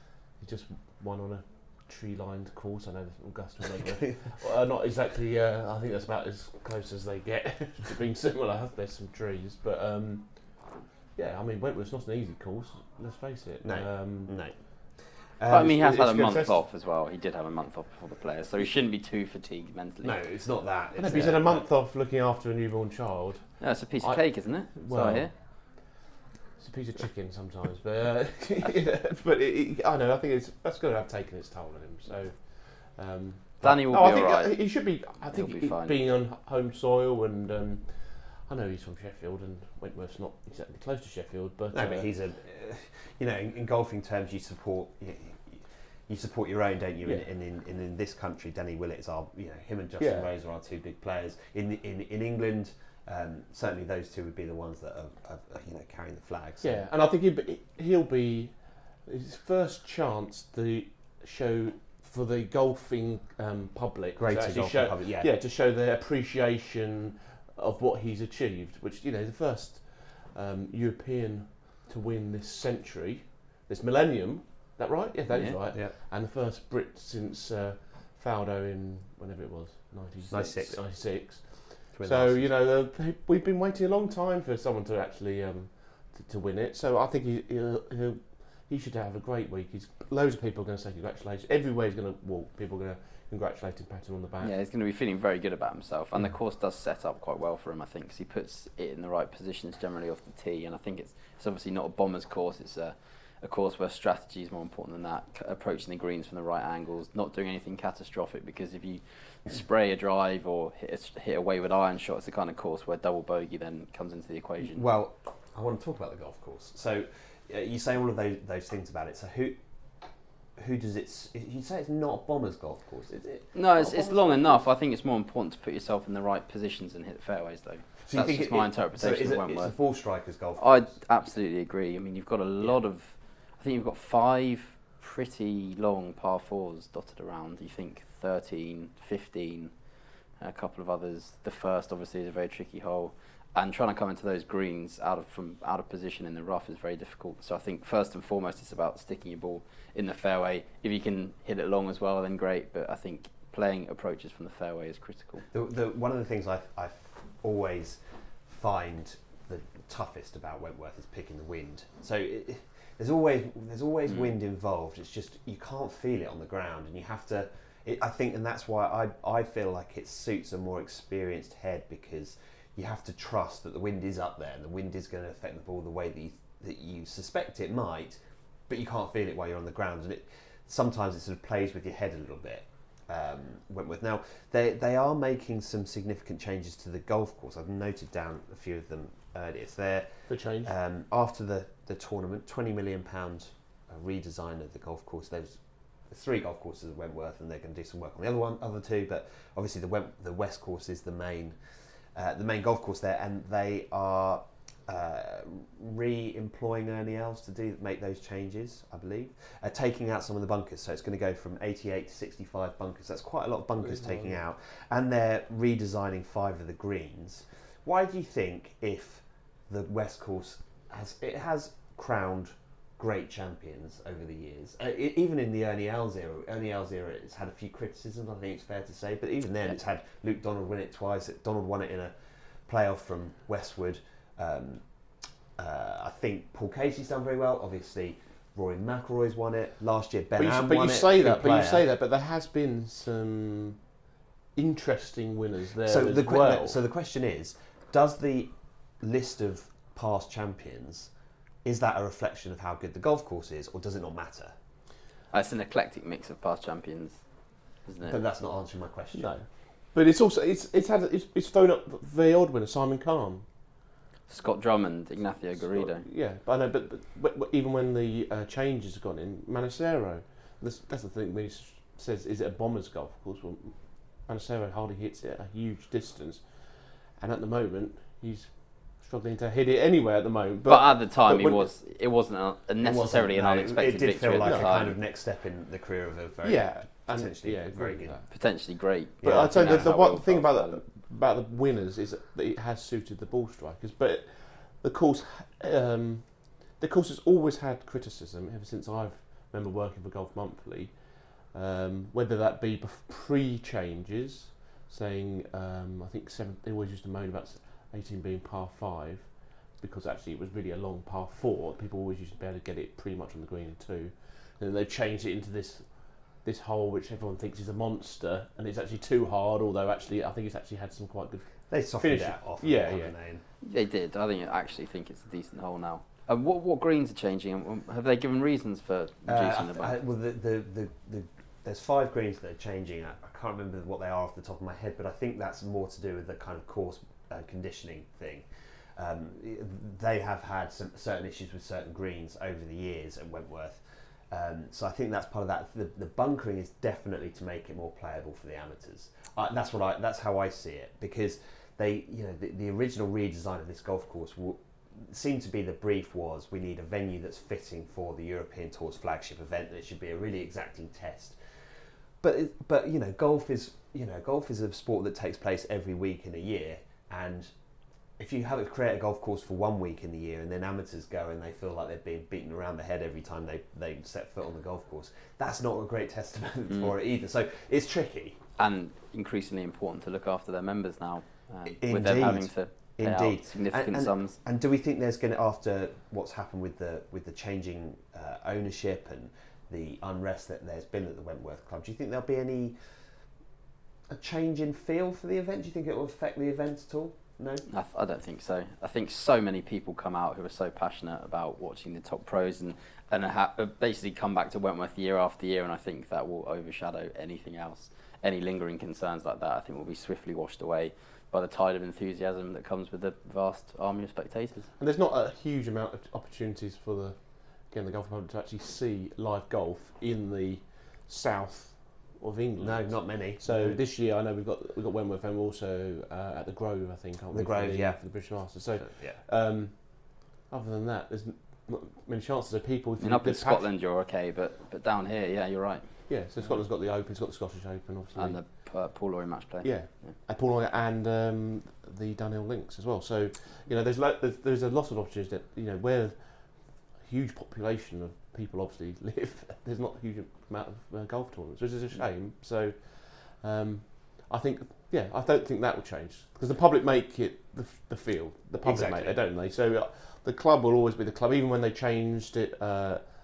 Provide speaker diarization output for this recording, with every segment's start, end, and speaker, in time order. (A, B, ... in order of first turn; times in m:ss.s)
0:00.4-0:10.3 A
0:11.2-0:14.4 A
0:13.6-0:14.6 B
0:15.4-0:16.6 B
0:15.5-0:20.2 C
0:20.0-0:21.6 B
0:21.0-0:23.5 A
0:23.6-0:25.3 C
0:24.8-0:25.3 A
0:26.6-0:42.1 A
0:33.6-0:34.6 C
0:35.3-0:36.0 C
0:41.7-0:56.8 B
0:50.0-0:50.3 A
0:56.6-0:58.5 A
0:59.1-1:34.5 A
1:04.2-1:05.3 B
1:15.3-1:15.6 C
1:20.3-1:20.8 B
1:21.9-1:22.5 B
1:34.4-1:54.8 C
1:54.6-1:59.6 B
2:00.6-2:04.6 B
2:03.5-2:09.7 C
2:08.1-2:10.9 B
2:10.6-2:19.7 C
2:20.4-2:35.5 C
2:35.5-3:15.6 B
3:10.3-3:10.7 A
3:16.1-3:21.6 B
3:22.2-3:52.1 B
3:33.8-3:34.4 A
3:52.7-3:54.8 B
3:55.6-4:01.8 B
4:00.4-4:03.8 A
4:04.6-4:06.8 A
4:05.9-4:11.1 B
4:11.6-4:14.5 B
4:15.3-4:17.2 C
4:17.9-4:18.2 C
4:18.0-4:19.3 B
4:19.1-4:23.4 A
4:24.3-4:26.0 C
4:25.6-4:33.8 A
4:34.3-4:36.4 A
4:37.2-4:38.5 A
4:39.0-4:41.7 A
4:40.6-4:45.0 C
4:42.8-4:48.2 B
4:44.4-4:44.7 A
4:46.4-4:48.2 A
4:48.3-4:50.8 C
4:49.2-4:49.9 B
4:49.2-4:56.3 A
4:56.8-5:00.9 A
5:01.5-5:09.3 A
5:09.8-5:15.9 A
5:16.4-5:23.1 A
5:21.7-5:23.4 B
5:23.6-5:30.0 C
5:29.3-5:38.4 B
5:39.0-6:01.4 B
6:02.2-6:07.5 B
6:08.2-6:18.4 B
6:18.6-6:24.4 C
6:21.7-6:32.8 B
6:34.1-6:37.6 B
6:37.7-6:54.7 C
6:54.8-6:57.2 A
6:57.7-7:09.8 A
7:02.6-7:03.8 B
7:07.3-7:09.2 B
7:10.5-7:13.7 A
7:13.0-7:15.8 C
7:16.1-7:18.4 A
7:18.2-7:20.2 C
7:19.6-7:26.2 A
7:27.0-7:43.0 A
7:38.6-7:39.2 B